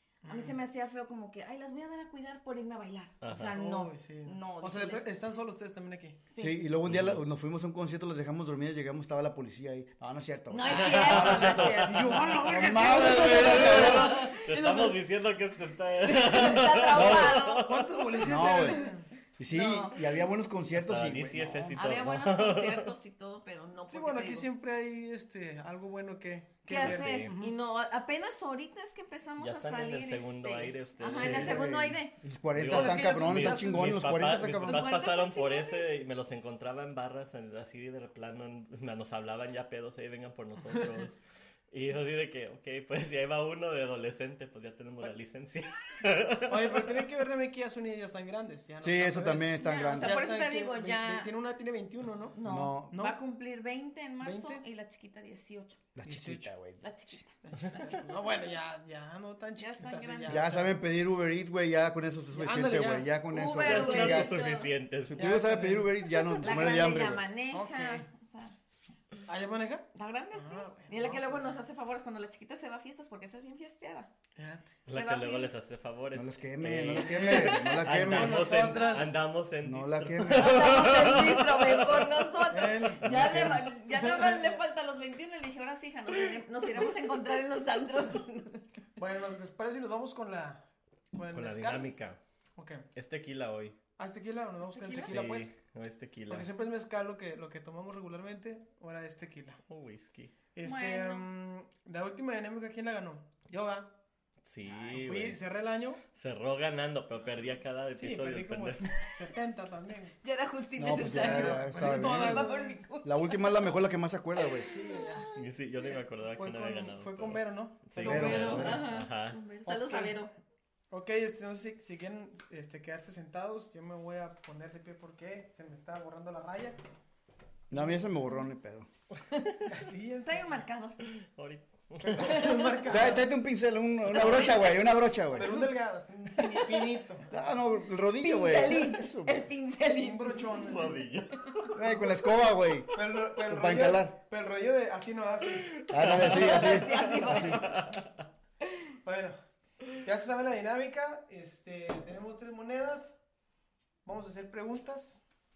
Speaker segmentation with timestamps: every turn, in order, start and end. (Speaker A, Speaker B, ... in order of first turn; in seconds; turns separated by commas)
Speaker A: 0.2-0.6, Speaker B: 0.2-5.0, Speaker C: 3.2-3.5, Speaker A: 3.5-6.2, Speaker B: 6.3-6.6, Speaker D: 6.4-14.2, Speaker C: 6.8-7.2, Speaker B: 10.5-15.0, Speaker C: 10.7-12.1, Speaker A: 11.1-13.9, Speaker C: 12.9-18.1, Speaker B: 16.0-17.7, Speaker D: 16.9-17.4, Speaker A: 17.6-19.1, Speaker D: 18.2-21.8, Speaker B: 18.5-18.9, Speaker B: 19.5-20.1, Speaker C: 20.7-22.9, Speaker B: 21.7-24.5, Speaker A: 23.9-27.5, Speaker B: 26.6-32.1, Speaker C: 26.7-27.3, Speaker C: 29.4-31.7, Speaker D: 31.1-34.9, Speaker C: 32.5-47.0, Speaker A: 32.7-34.0, Speaker B: 34.6-35.9, Speaker A: 46.5-52.4, Speaker D: 48.8-50.3, Speaker B: 49.5-51.3, Speaker B: 52.3-55.8, Speaker D: 52.4-52.9, Speaker A: 52.9-53.2, Speaker A: 54.2-54.6, Speaker D: 56.0-56.8, Speaker A: 56.0-56.5, Speaker B: 56.8-58.0, Speaker A: 57.4-60.8, Speaker B: 59.6-60.5, Speaker D: 60.3-64.4, Speaker A: 62.3-63.1, Speaker B: 63.3-64.7, Speaker C: 63.6-65.3, Speaker D: 65.0-67.2, Speaker A: 65.1-66.8, Speaker B: 66.4-68.5, Speaker A: 67.5-68.0, Speaker A: 69.2-71.6, Speaker B: 69.9-74.1, Speaker A: 74.3-74.8, Speaker C: 74.9-82.3, Speaker B: 74.9-75.5, Speaker D: 76.1-78.7, Speaker A: 77.0-79.2, Speaker B: 78.8-79.0, Speaker D: 79.6-80.9, Speaker B: 80.3-88.7, Speaker A: 82.5-84.6, Speaker C: 83.0-83.7, Speaker A: 89.0-91.9, Speaker C: 91.3-92.2, Speaker A: 92.5-92.9, Speaker C: 92.9-93.8, Speaker A: 94.0-95.5, Speaker B: 94.6-95.2, Speaker C: 95.0-96.5, Speaker A: 96.3-99.6, Speaker C: 99.7-100.3, Speaker A: 100.5-103.9, Speaker B: 100.6-101.3, Speaker C: 104.4-105.4, Speaker A: 104.6-106.0, Speaker C: 106.1-109.1, Speaker A: 108.0-110.2, Speaker B: 110.2-113.7, Speaker D: 110.8-112.5, Speaker A: 111.0-112.8, Speaker D: 113.0-114.7, Speaker B: 114.4-115.3, Speaker A: 114.6-115.3, Speaker C: 115.3-119.4, Speaker A: 115.9-118.8, Speaker B: 118.0-120.3, Speaker D: 118.0-118.9, Speaker A: 119.6-120.2, Speaker A: 120.9-126.8, Speaker D: 127.7-128.9, Speaker B: 129.3-129.6, Speaker A: 129.7-130.6, Speaker B: 130.2-131.0, Speaker C: 131.1-132.6, Speaker A: 132.0-133.3, Speaker B: 132.2-132.9, Speaker D: 132.8-135.6, Speaker B: 134.1-134.6, Speaker A: 134.1-134.6, Speaker A: 135.3-137.3, Speaker B: 136.4-136.9, Speaker D: 137.3-139.4, Speaker B: 138.2-140.7, Speaker A: 139.9-141.0, Speaker C: 140.7-141.4, Speaker B: 141.4-141.7, Speaker D: 141.7-144.1, Speaker A: 142.9-145.8, Speaker C: 145.7-148.1, Speaker D: 145.9-147.7, Speaker B: 146.2-147.7, Speaker A: 149.0-149.4, Speaker A: 149.9-153.2, Speaker A: 154.0-155.2